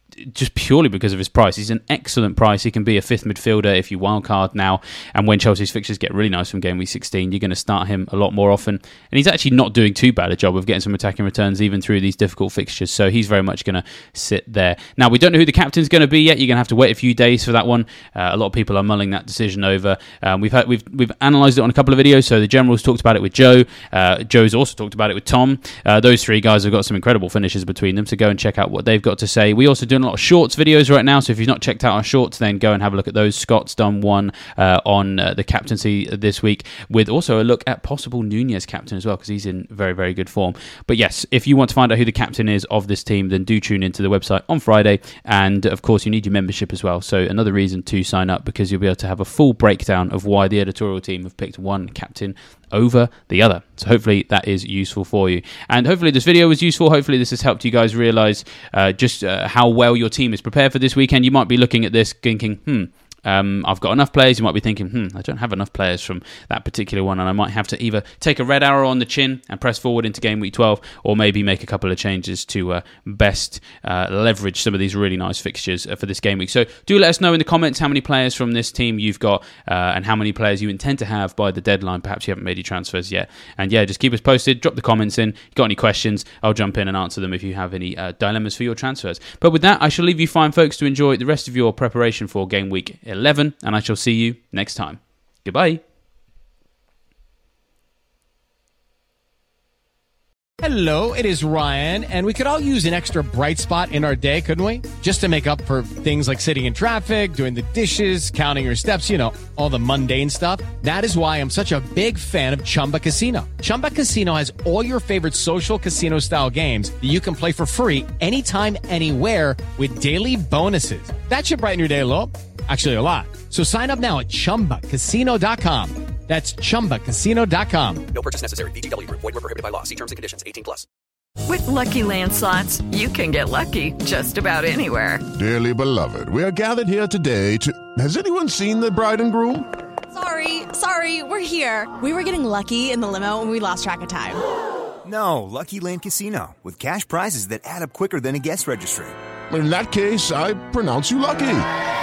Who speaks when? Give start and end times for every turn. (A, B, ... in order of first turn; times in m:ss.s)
0:00.2-1:35.8 A
1:40.6-2:08.0 B
2:08.1-2:10.8 C
2:11.4-2:15.2 D
2:15.3-2:19.7 E
2:20.1-2:24.4 F
2:25.0-2:29.1 G
2:29.5-2:31.6 E